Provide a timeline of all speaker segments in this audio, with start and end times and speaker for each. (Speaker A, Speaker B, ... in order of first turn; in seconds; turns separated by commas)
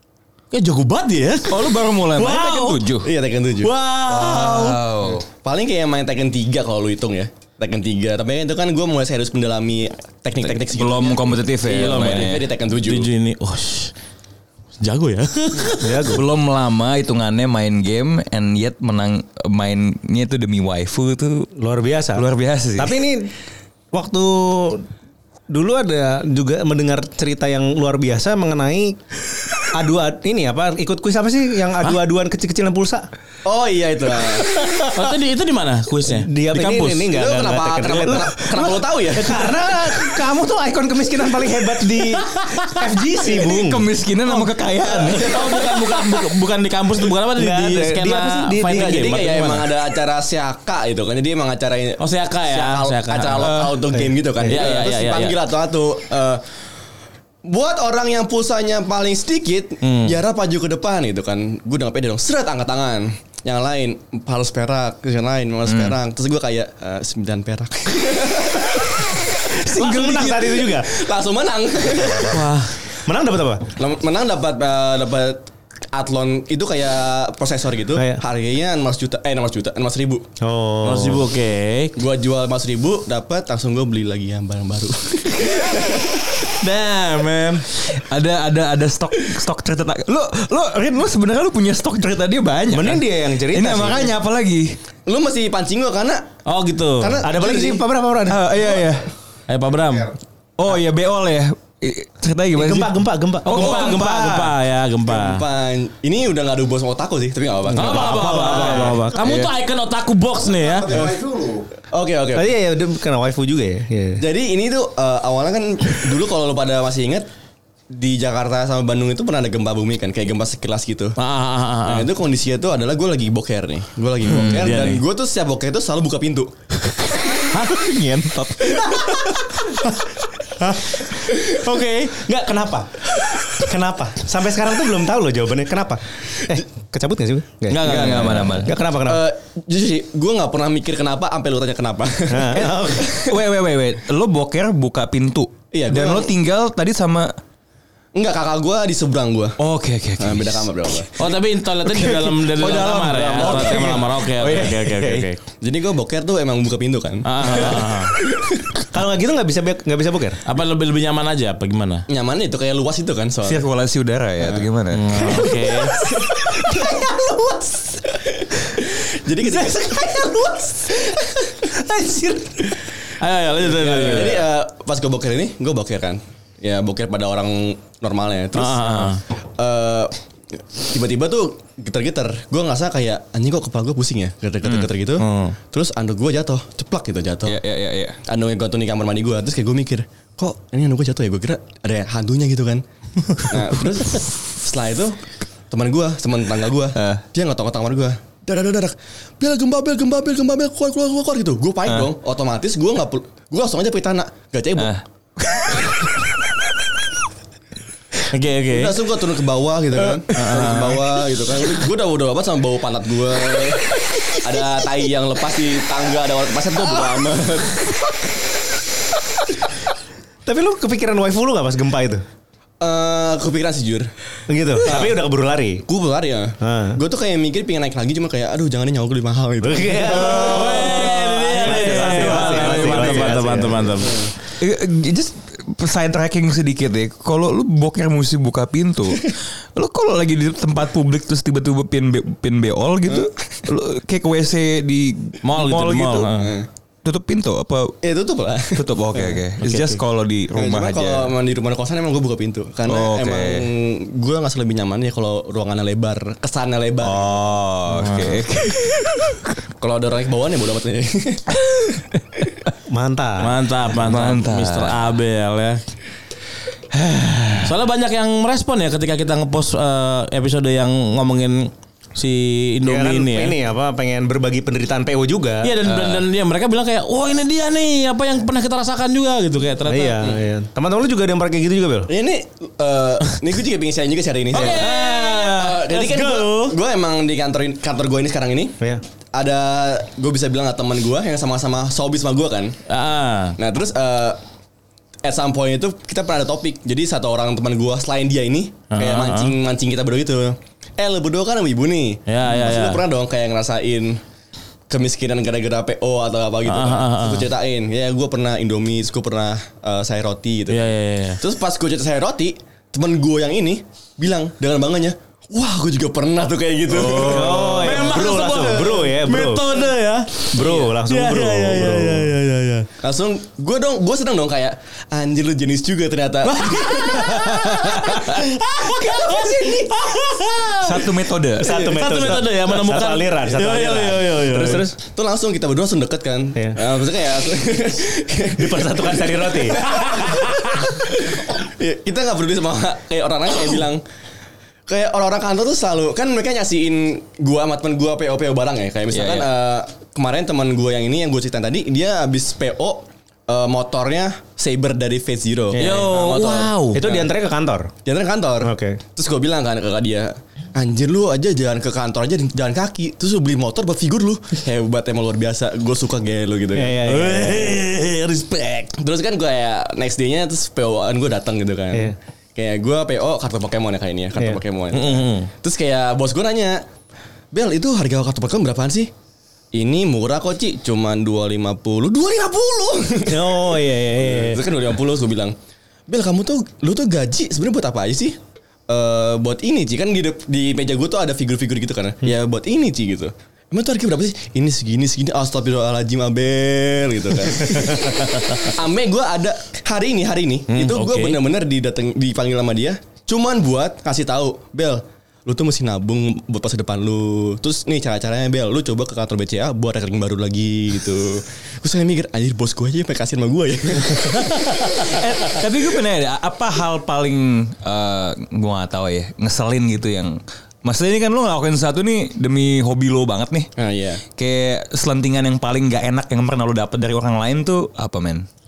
Speaker A: 0.5-2.8, Speaker B: 1.5-3.1, Speaker C: 3.0-3.7, Speaker A: 3.6-4.8, Speaker B: 4.1-5.2, Speaker C: 5.4-13.1, Speaker B: 10.7-12.5, Speaker A: 11.7-13.9, Speaker A: 14.8-16.1, Speaker D: 15.7-16.2, Speaker B: 16.1-21.5, Speaker D: 21.5-22.2, Speaker B: 22.1-23.0, Speaker D: 22.8-23.3, Speaker D: 23.9-24.9, Speaker D: 25.5-29.0, Speaker D: 29.7-33.1, Speaker C: 33.4-34.5, Speaker D: 34.5-35.0, Speaker A: 34.7-36.3, Speaker D: 36.1-43.8, Speaker C: 36.5-39.6, Speaker B: 43.3-45.3, Speaker C: 45.1-46.1, Speaker A: 45.1-49.6, Speaker D: 45.3-45.9, Speaker D: 47.3-49.6, Speaker C: 48.7-56.5, Speaker A: 52.0-53.5, Speaker B: 53.4-53.9, Speaker A: 54.4-55.4, Speaker C: 57.4-72.4, Speaker A: 59.8-60.2, Speaker B: 65.7-66.0, Speaker D: 69.5-70.9, Speaker A: 72.2-72.7, Speaker D: 73.0-73.7, Speaker C: 73.8-80.3, Speaker D: 78.0-78.2, Speaker D: 80.4-81.2, Speaker A: 80.8-82.0, Speaker C: 82.0-86.5, Speaker A: 86.5-87.7, Speaker B: 87.9-94.8, Speaker D: 92.7-94.1, Speaker C: 95.0-96.3, Speaker A: 96.4-97.2, Speaker C: 97.0-97.9, Speaker D: 97.2-98.5, Speaker B: 98.2-99.1, Speaker A: 99.5-100.1, Speaker B: 100.6-104.0, Speaker D: 102.5-104.5, Speaker A: 103.4-105.4, Speaker C: 103.6-103.9, Speaker C: 105.1-108.9, Speaker A: 107.7-110.9, Speaker D: 107.7-109.2, Speaker B: 109.1-109.5, Speaker C: 110.9-112.5, Speaker D: 112.3-114.2, Speaker C: 114.2-117.3, Speaker C: 117.9-121.2, Speaker A: 121.2-122.1, Speaker C: 121.8-126.5, Speaker A: 124.2-125.0, Speaker B: 124.3-124.7, Speaker A: 127.5-127.8, Speaker B: 127.5-129.2, Speaker D: 130.7-131.1, Speaker A: 131.5-132.1, Speaker D: 132.1-139.2, Speaker A: 137.7-138.6, Speaker B: 137.8-138.8, Speaker C: 139.0-143.4, Speaker D: 142.3-143.2, Speaker B: 143.2-147.3, Speaker C: 145.7-146.3, Speaker C: 148.1-149.6, Speaker B: 149.6-150.7, Speaker C: 150.2-151.3, Speaker A: 151.2-155.4, Speaker B: 152.1-154.8, Speaker C: 152.5-153.9, Speaker D: 153.6-155.2, Speaker C: 155.6-158.7, Speaker A: 157.2-158.1, Speaker D: 158.9-160.4, Speaker A: 160.4-162.1, Speaker C: 162.1-163.6, Speaker B: 163.4-165.3, Speaker C: 164.4-164.7, Speaker A: 164.9-165.9, Speaker D: 165.3-168.0, Speaker C: 166.0-166.9, Speaker C: 168.8-171.6, Speaker D: 169.4-171.0, Speaker D: 171.6-172.8, Speaker A: 173.2-174.5, Speaker C: 173.6-187.6, Speaker A: 178.5-179.2, Speaker B: 184.6-184.9, Speaker A: 185.2-185.6, Speaker B: 187.4-188.2, Speaker C: 188.3-195.2, Speaker C: 195.7-205.0, Speaker B: 196.9-197.2, Speaker B: 204.8-206.7, Speaker A: 208.3-209.0, Speaker C: 208.7-218.1, Speaker A: 210.3-211.0, Speaker D: 220.4-222.2, Speaker C: 222.8-224.1, Speaker D: 224.5-225.8, Speaker C: 224.8-225.2, Speaker C: 225.8-231.9, Speaker D: 226.6-227.0, Speaker D: 229.6-231.1, Speaker A: 230.1-234.2, Speaker D: 231.6-233.9, Speaker B: 232.0-233.1, Speaker C: 234.0-234.3, Speaker B: 234.6-246.3, Speaker A: 245.4-246.5, Speaker C: 246.4-246.7, Speaker B: 247.0-248.0, Speaker C: 248.0-249.4, Speaker B: 248.7-251.3, Speaker A: 249.6-250.0, Speaker C: 250.5-257.2, Speaker B: 252.9-253.7, Speaker B: 257.0-259.5, Speaker A: 258.0-258.4, Speaker C: 259.8-261.4, Speaker B: 261.8-262.4, Speaker D: 262.9-263.5, Speaker A: 263.4-265.8, Speaker B: 264.0-265.1, Speaker B: 266.9-267.8, Speaker A: 267.6-273.6, Speaker D: 272.8-275.9, Speaker A: 275.6-280.4, Speaker D: 279.9-282.1, Speaker C: 282.1-288.8, Speaker A: 284.5-286.8, Speaker D: 284.5-285.9, Speaker C: 289.3-292.8, Speaker A: 292.9-293.6, Speaker C: 293.6-294.4, Speaker C: 295.2-304.2, Speaker A: 298.9-299.5, Speaker A: 302.3-303.0, Speaker C: 304.9-310.8, Speaker A: 306.6-307.5, Speaker A: 310.7-311.4, Speaker C: 311.4-319.0, Speaker A: 316.9-322.9, Speaker D: 317.0-319.6, Speaker D: 320.5-322.3, Speaker C: 323.0-329.3, Speaker D: 326.4-330.2, Speaker A: 328.9-329.4, Speaker A: 330.0-331.0, Speaker B: 330.8-331.9, Speaker D: 331.6-334.9, Speaker A: 331.6-334.9, Speaker C: 335.1-344.0, Speaker D: 338.6-339.9, Speaker C: 344.9-357.3, Speaker B: 349.1-349.5, Speaker D: 355.7-356.3, Speaker A: 355.8-357.0, Speaker D: 356.9-357.9, Speaker C: 358.0-367.0, Speaker D: 358.6-359.0, Speaker D: 366.7-367.8, Speaker A: 367.0-368.9, Speaker C: 368.9-376.8, Speaker A: 374.9-375.5, Speaker C: 377.5-379.1, Speaker C: 379.7-385.5, Speaker D: 383.3-384.6, Speaker C: 386.1-388.4, Speaker C: 388.9-414.8, Speaker A: 400.7-401.4, Speaker B: 415.0-423.7, Speaker C: 423.8-424.2, Speaker B: 424.3-428.4